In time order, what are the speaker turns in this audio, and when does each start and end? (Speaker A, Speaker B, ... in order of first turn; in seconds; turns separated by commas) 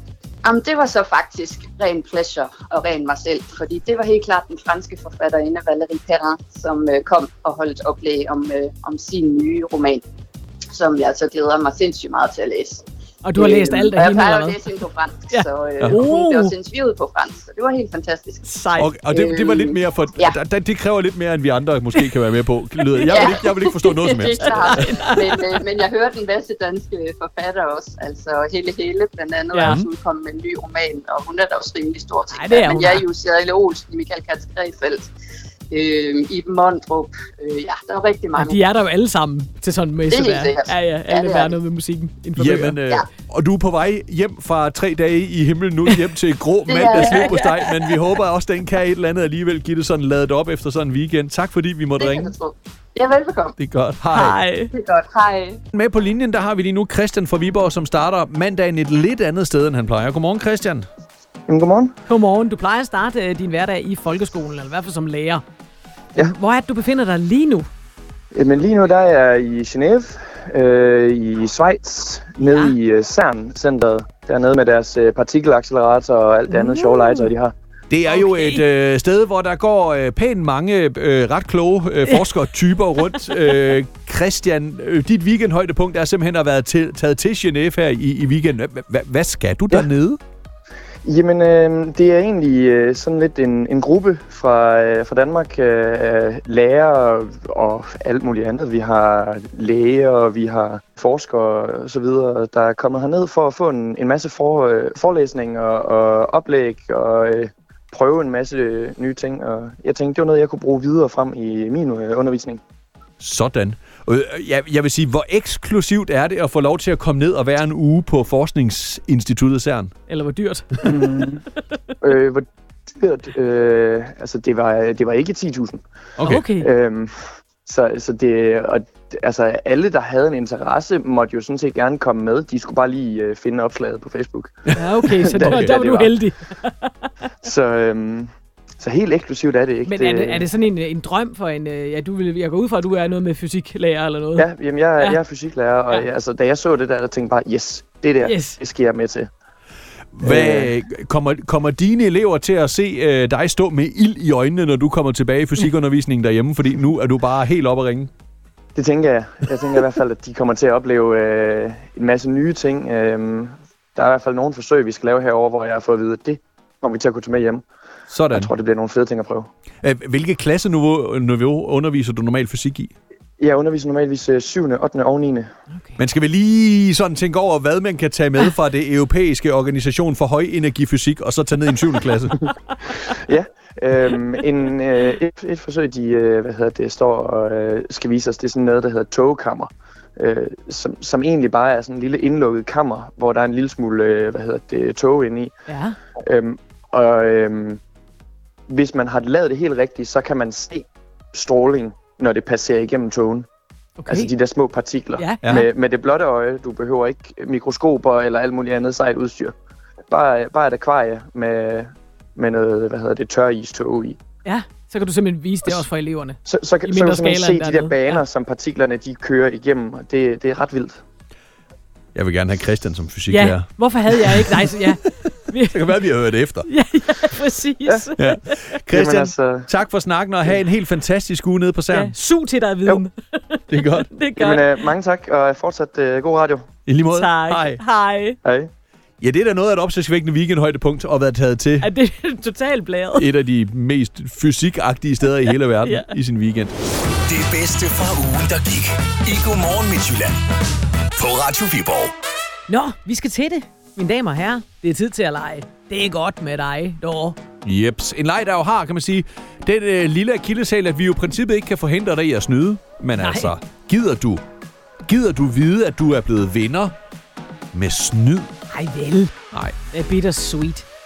Speaker A: 0.4-10.0, Speaker A: 10.7-12.8, Speaker B: 13.2-14.6, Speaker A: 13.4-18.4, Speaker B: 15.3-16.5, Speaker B: 18.4-18.9, Speaker C: 18.8-24.9, Speaker A: 19.1-20.4, Speaker B: 22.9-25.7, Speaker A: 23.1-35.1, Speaker B: 29.5-29.8, Speaker C: 29.6-29.9, Speaker B: 32.3-33.0, Speaker A: 35.7-38.6, Speaker B: 38.4-42.8, Speaker A: 40.1-41.6, Speaker C: 42.4-52.3, Speaker A: 46.7-47.4, Speaker B: 46.9-47.8, Speaker A: 52.0-53.6, Speaker C: 53.6-54.4, Speaker B: 54.1-54.7, Speaker A: 54.7-55.6, Speaker C: 55.7-60.9, Speaker D: 61.5-62.0, Speaker B: 62.1-65.4, Speaker B: 66.2-67.7, Speaker D: 68.3-77.5, Speaker B: 72.4-72.8, Speaker B: 76.5-77.2, Speaker C: 77.9-90.2, Speaker B: 78.1-78.6, Speaker D: 91.0-112.6, Speaker C: 113.2-119.9, Speaker B: 120.1-121.2, Speaker D: 120.8-121.4, Speaker D: 122.0-125.8, Speaker C: 126.2-126.5, Speaker B: 126.2-126.7, Speaker D: 126.6-127.1, Speaker D: 127.7-136.1, Speaker B: 134.8-136.9, Speaker C: 135.1-135.8, Speaker D: 137.4-140.5, Speaker B: 139.8-144.5, Speaker D: 144.4-149.3, Speaker B: 148.2-148.6, Speaker C: 150.1-158.1, Speaker D: 150.2-150.7, Speaker D: 158.8-167.7, Speaker C: 168.1-168.5, Speaker D: 168.3-169.5, Speaker C: 169.8-172.9, Speaker D: 173.4-175.5, Speaker B: 175.7-176.0, Speaker C: 176.0-182.5, Speaker D: 183.1-195.5, Speaker B: 195.7-196.0, Speaker D: 196.2-197.8, Speaker D: 198.7-203.5, Speaker B: 204.0-204.3, Speaker D: 204.1-209.6, Speaker B: 205.2-205.7, Speaker D: 210.1-214.2, Speaker B: 214.4-218.2, Speaker D: 216.4-221.0, Speaker C: 222.2-224.8, Speaker B: 223.3-226.0, Speaker C: 225.7-226.7, Speaker B: 226.7-228.8, Speaker C: 228.2-232.1, Speaker D: 228.9-229.7, Speaker B: 231.9-234.9, Speaker C: 233.7-234.1, Speaker D: 234.4-236.7, Speaker C: 236.9-237.8, Speaker B: 237.1-238.4, Speaker D: 238.4-238.7, Speaker C: 239.2-241.9, Speaker B: 241.8-243.3, Speaker C: 243.2-246.7, Speaker B: 245.8-246.2, Speaker E: 247.2-250.4, Speaker E: 251.2-252.1, Speaker B: 252.7-257.4, Speaker C: 257.6-264.4, Speaker B: 263.2-263.5, Speaker C: 265.1-266.9, Speaker C: 267.7-268.5, Speaker B: 268.7-269.3, Speaker B: 269.9-270.9